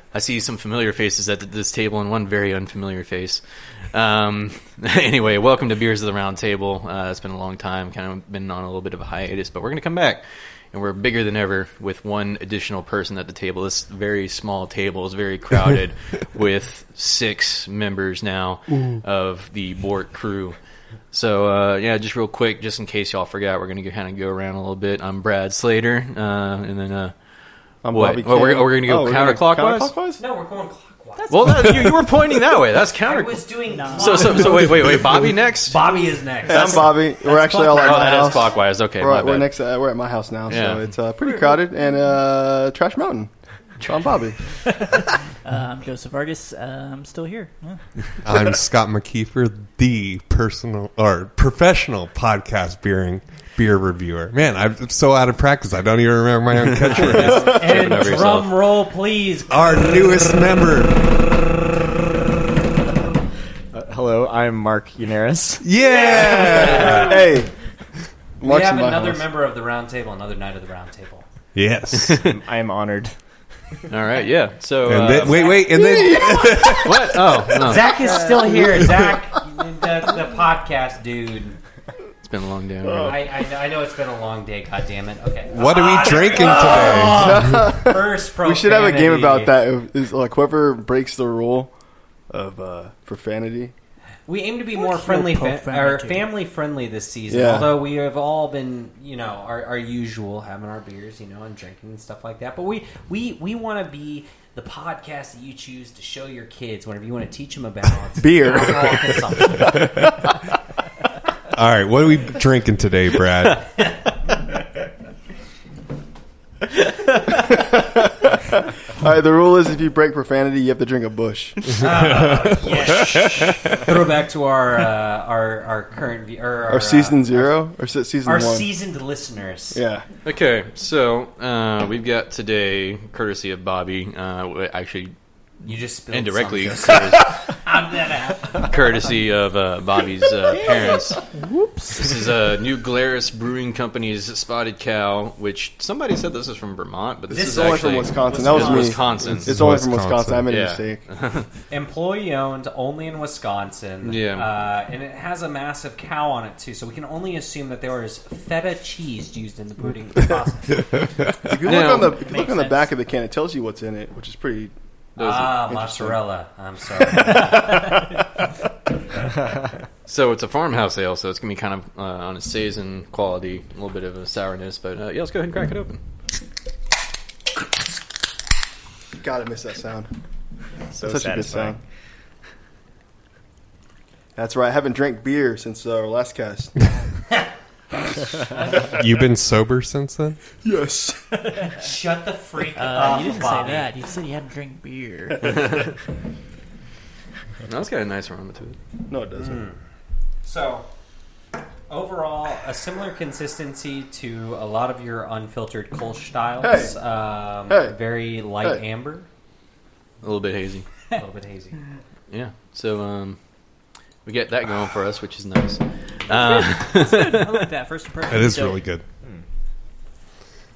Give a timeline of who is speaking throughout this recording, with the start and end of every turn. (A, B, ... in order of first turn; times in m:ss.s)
0:00.1-0:20.6 A
0:21.1-0:27.1 A
0:27.8-0:30.2 B
0:27.9-0:30.0 A
0:30.2-0:31.7 C
0:31.2-0:31.9 D
0:31.3-0:35.8 A
0:33.0-0:38.2 C
0:33.7-0:34.7 D
0:36.4-0:44.4 B
0:37.7-0:39.5 A
0:40.5-0:40.9 A
0:41.2-0:41.6 D
0:43.8-0:44.1 A
0:44.7-0:48.2 D
0:48.2-0:57.9 E
0:56.9-0:58.5 A
0:56.9-0:59.8 C
0:59.5-1:01.2 E
1:03.7-1:05.6 F
1:05.6-1:07.2 E
1:05.9-1:07.2 C
1:06.5-1:07.5 B
1:08.4-1:09.2 B
1:08.4-1:11.2 C
1:11.5-1:12.2 E
1:12.2-1:13.2 F
1:13.9-1:15.7 A
1:14.8-1:17.4 E
1:15.2-1:16.0 C
1:15.7-1:16.8 B
1:16.5-1:17.9 A
1:17.5-1:21.6 C
1:17.8-1:18.7 D
1:22.2-1:23.2 A
1:22.8-1:23.2 B
1:22.9-1:29.6 C
1:25.5-1:27.6 E
1:26.7-1:31.7 B
1:32.3-1:33.7 B
1:34.3-1:49.9 C
1:34.7-1:36.3 D
1:37.3-1:37.8 B
1:48.2-1:49.9 B
1:51.5-1:53.9 E
1:57.3-2:02.0 B
2:01.8-2:07.6 C
2:01.8-2:03.8 E
2:02.6-2:03.5 A
2:06.7-2:08.7 B
2:08.2-2:09.8 C
2:09.7-2:10.0 B
2:10.2-2:15.1 A
2:15.6-2:18.9 C
2:16.1-2:17.3 A
2:18.6-2:21.2 A
2:20.5-2:22.2 D
2:21.9-2:29.6 A
2:27.3-2:29.0 C
2:27.3-2:31.0 B
2:29.3-2:30.5 E
2:30.5-2:31.5 A
2:31.7-2:40.8 C
2:34.0-2:34.4 A
2:41.0-2:41.5 E
2:41.4-2:44.7 B
2:41.6-2:42.2 A
2:41.8-2:42.9 D
2:45.2-2:45.5 A
2:45.2-2:48.0 C
2:45.3-2:46.2 B
2:50.1-2:56.0 A
2:59.2-3:00.1 B
3:01.0-3:01.8 B
3:01.0-3:01.8 F
3:04.4-3:06.7 B
3:08.7-3:10.4 E
3:10.6-3:11.4 B
3:11.4-3:11.7 D
3:11.7-3:13.9 C
3:12.7-3:15.8 D
3:15.4-3:15.8 A
3:17.6-3:18.8 A
3:19.1-3:19.6 B
3:19.4-3:19.8 C
3:20.4-3:20.8 C
3:21.9-3:29.3 C
3:26.6-3:26.9 B
3:27.7-3:28.0 B
3:30.2-3:30.9 A
3:31.1-3:31.8 C
3:32.3-3:33.4 A
3:34.2-3:37.7 A
3:36.3-3:38.8 D
3:38.2-3:39.0 E